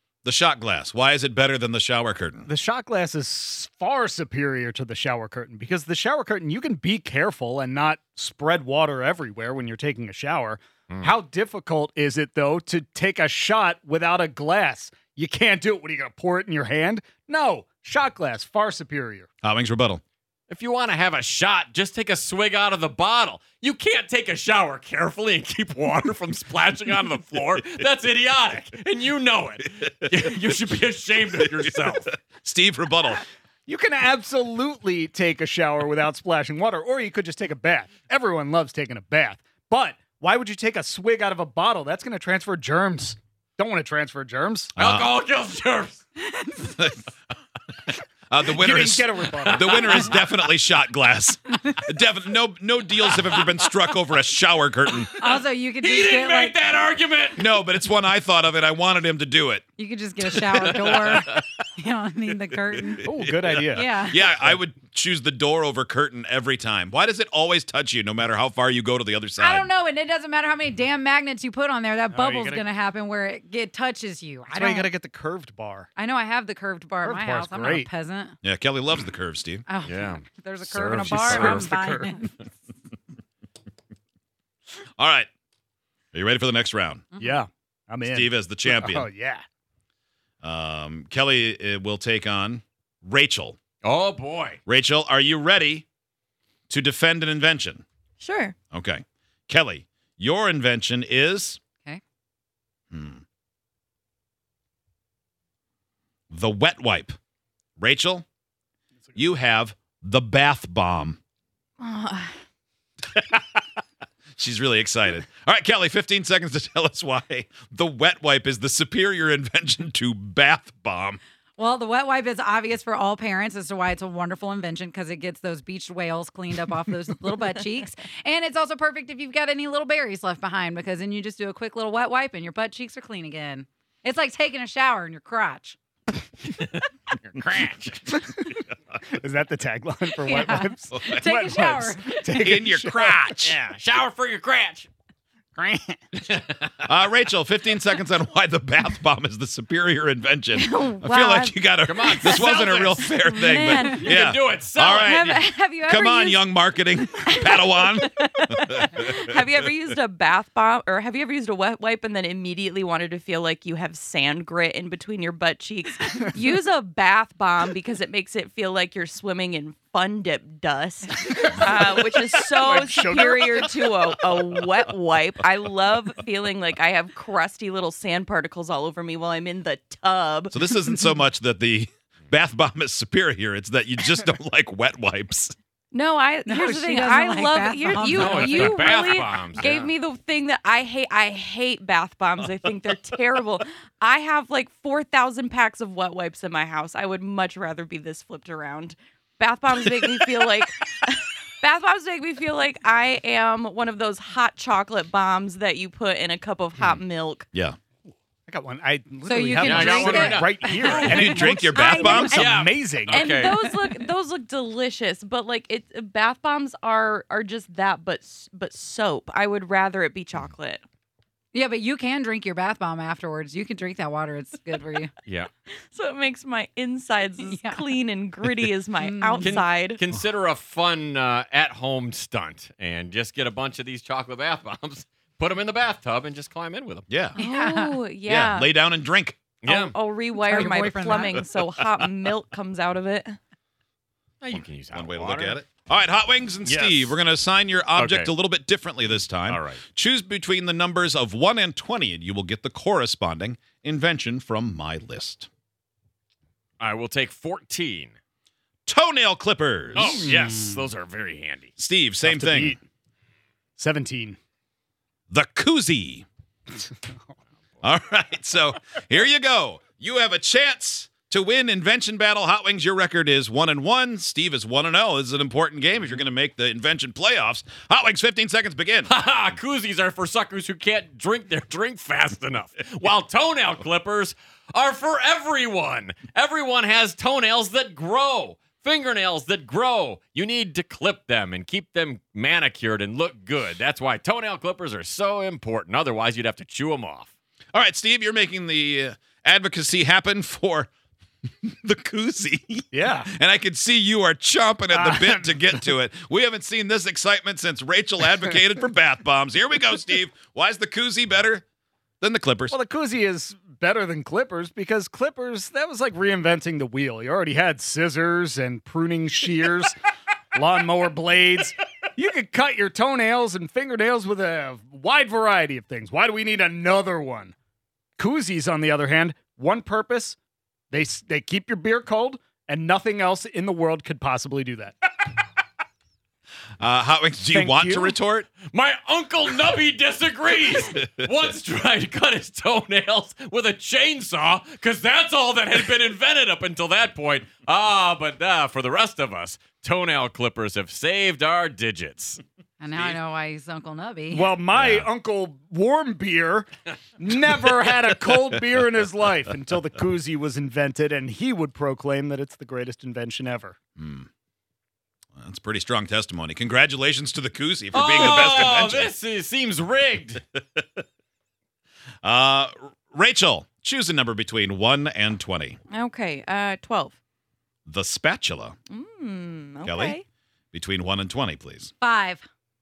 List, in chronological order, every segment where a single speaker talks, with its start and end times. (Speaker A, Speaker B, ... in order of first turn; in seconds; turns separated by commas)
Speaker A: 0.2-2.5, Speaker B: 2.5-19.3, Speaker A: 19.4-20.0, Speaker C: 20.5-32.1, Speaker A: 32.3-33.2, Speaker B: 33.7-44.7, Speaker C: 44.8-46.0, Speaker A: 44.8-45.1, Speaker D: 46.3-46.7, Speaker A: 46.6-47.0, Speaker A: 48.3-55.1, Speaker B: 48.5-50.1, Speaker C: 49.5-50.1, Speaker D: 55.2-56.5, Speaker C: 55.8-57.5, Speaker A: 57.4-59.6, Speaker D: 59.8-63.1, Speaker C: 60.4-61.4, Speaker B: 63.0-63.9, Speaker D: 63.7-64.2, Speaker A: 63.8-69.7, Speaker D: 69.4-74.9, Speaker B: 72.1-72.6, Speaker B: 74.5-75.9, Speaker D: 76.0-78.4, Speaker B: 77.0-77.9, Speaker A: 78.4-79.6, Speaker D: 79.7-82.5, Speaker C: 79.8-80.2, Speaker B: 80.6-82.1, Speaker C: 81.0-81.6, Speaker A: 85.0-85.3, Speaker A: 86.1-87.0, Speaker D: 87.2-87.4, Speaker B: 87.2-89.4, Speaker A: 88.1-89.1, Speaker A: 90.4-93.6, Speaker C: 93.8-94.6, Speaker A: 94.7-95.8, Speaker A: 96.7-97.8, Speaker E: 98.2-98.5, Speaker A: 98.7-101.6, Speaker A: 102.9-103.2, Speaker A: 106.3-107.2, Speaker A: 107.8-108.2, Speaker A: 109.2-111.2, Speaker E: 111.8-112.3, Speaker A: 113.2-113.6, Speaker A: 114.4-121.2, Speaker D: 121.6-135.8, Speaker C: 136.5-138.2, Speaker B: 138.2-143.5, Speaker D: 140.2-142.2, Speaker A: 140.9-141.2, Speaker A: 142.4-143.4, Speaker C: 143.4-144.9, Speaker B: 145.6-146.0, Speaker C: 146.2-146.7, Speaker A: 146.8-159.2, Speaker E: 150.5-154.1, Speaker C: 151.8-153.0, Speaker C: 153.8-155.1, Speaker E: 154.8-156.4, Speaker E: 157.2-180.5, Speaker B: 171.3-174.0, Speaker A: 180.5-185.5, Speaker E: 185.9-207.5, Speaker D: 186.4-188.9, Speaker C: 188.0-189.9, Speaker B: 208.5-213.3, Speaker D: 209.2-212.3, Speaker C: 209.6-211.4, Speaker A: 211.1-212.5, Speaker E: 211.7-212.4, Speaker C: 212.3-213.7, Speaker E: 213.1-220.8, Speaker D: 221.5-225.1, Speaker E: 225.9-230.0, Speaker D: 227.4-227.9, Speaker D: 229.0-229.6, Speaker C: 229.4-237.1, Speaker A: 237.1-237.4, Speaker D: 237.4-238.0, Speaker E: 237.4-238.7, Speaker A: 238.3-239.4, Speaker C: 239.6-239.9, Speaker E: 239.7-243.4, Speaker D: 240.4-241.4, Speaker C: 244.4-245.6, Speaker A: 244.9-255.5, Speaker C: 246.6-247.1, Speaker C: 247.9-248.3, Speaker C: 249.4-249.8, Speaker C: 256.8-258.1, Speaker A: 258.9-260.3, Speaker C: 259.9-261.7, Speaker B: 260.2-260.8, Speaker A: 261.8-262.8, Speaker B: 262.2-262.8, Speaker B: 263.8-264.4, Speaker A: 265.3-266.2, Speaker B: 266.7-267.2, Speaker A: 267.8-279.1, Speaker C: 279.1-297.3, Speaker A: 297.7-300.9, Speaker A: 301.6-311.6, Speaker B: 302.9-303.3, Speaker B: 304.9-305.8, Speaker A: 312.2-312.7, Speaker B: 312.7-319.9, Speaker B: 320.5-327.5, Speaker B: 328.2-330.4, Speaker B: 330.9-335.0, Speaker A: 336.8-338.5, Speaker B: 337.5-338.1, Speaker C: 338.6-353.2, Speaker D: 352.8-354.5, Speaker B: 354.3-363.8, Speaker A: 354.7-355.0, Speaker A: 364.0-364.3, Speaker A: 365.4-369.1, Speaker C: 367.9-370.4, Speaker A: 372.2-375.8, Speaker E: 375.9-377.2, Speaker A: 377.9-378.8, Speaker E: 378.9-380.2, Speaker A: 379.8-380.2, Speaker A: 380.7-381.9, Speaker D: 382.0-382.4